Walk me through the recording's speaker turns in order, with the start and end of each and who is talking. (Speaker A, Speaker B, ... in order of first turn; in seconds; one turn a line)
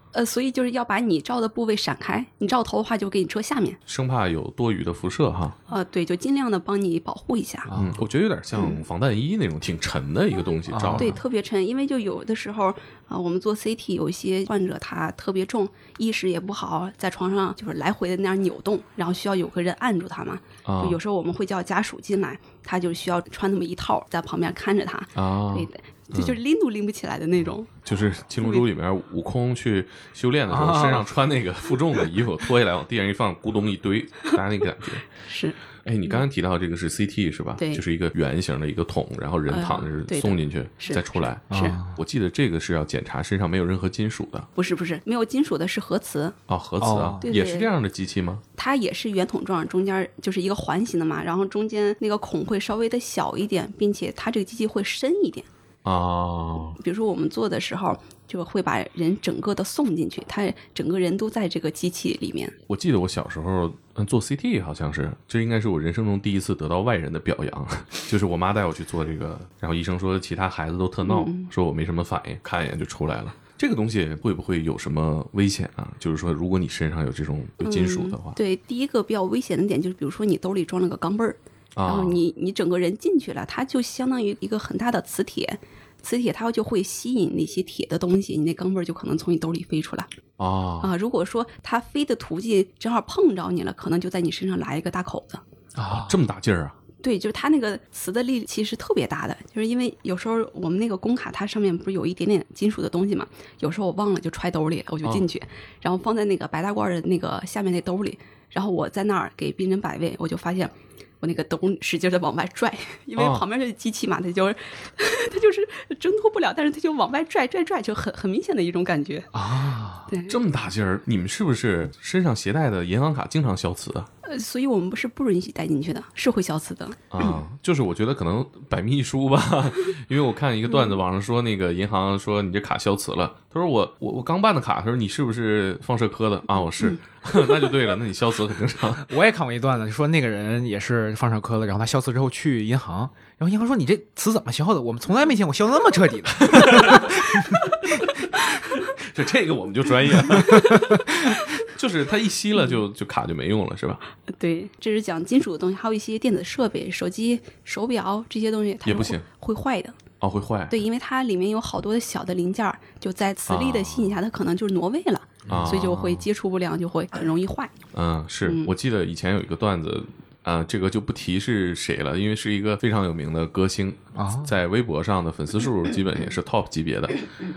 Speaker A: 0.1-3.8
Speaker B: 3.9-5.6
Speaker A: 5.7-7.7
Speaker C: 7.7-8.0
Speaker B: 7.7-11.2
Speaker A: 8.5-8.8
Speaker C: 10.7-11.2
Speaker A: 10.9-27.7
Speaker B: 20.6-21.0
Speaker B: 25.1-26.4
Speaker B: 27.8-35.0
Speaker C: 30.5-31.1
Speaker A: 35.2-36.2
Speaker B: 35.8-44.5
Speaker A: 37.6-37.8
Speaker A: 39.5-41.8
Speaker C: 41.5-42.0
Speaker A: 44.5-46.4
Speaker B: 46.5-48.4
Speaker C: 46.8-47.2
Speaker A: 47.2-47.7
Speaker A: 48.5-55.5
Speaker B: 55.8-56.8
Speaker A: 56.8-62.5
Speaker B: 62.7-78.4
Speaker A: 71.0-71.5
Speaker A: 77.6-90.1
Speaker B: 81.7-82.2
Speaker B: 90.4-90.9
Speaker A: 90.8-95.4
Speaker C: 95.8-96.2
Speaker B: 95.9-96.7
Speaker A: 97.0-119.3
Speaker B: 113.2-113.4
Speaker C: 119.3-120.1
Speaker A: 120.1-120.4
Speaker B: 120.2-124.1
Speaker A: 124.2-127.4
Speaker B: 127.1-139.1
Speaker A: 130.7-130.9
Speaker C: 139.0-147.6
Speaker B: 146.5-147.2
Speaker B: 148.7-154.0
Speaker A: 150.3-150.8
Speaker A: 154.3-160.0
Speaker B: 158.8-159.2
Speaker B: 160.2-160.8
Speaker A: 160.7-167.8
Speaker B: 163.5-164.2
Speaker C: 165.4-165.7
Speaker B: 165.5-166.3
Speaker B: 167.9-177.2
Speaker A: 168.4-168.7
Speaker C: 174.2-174.6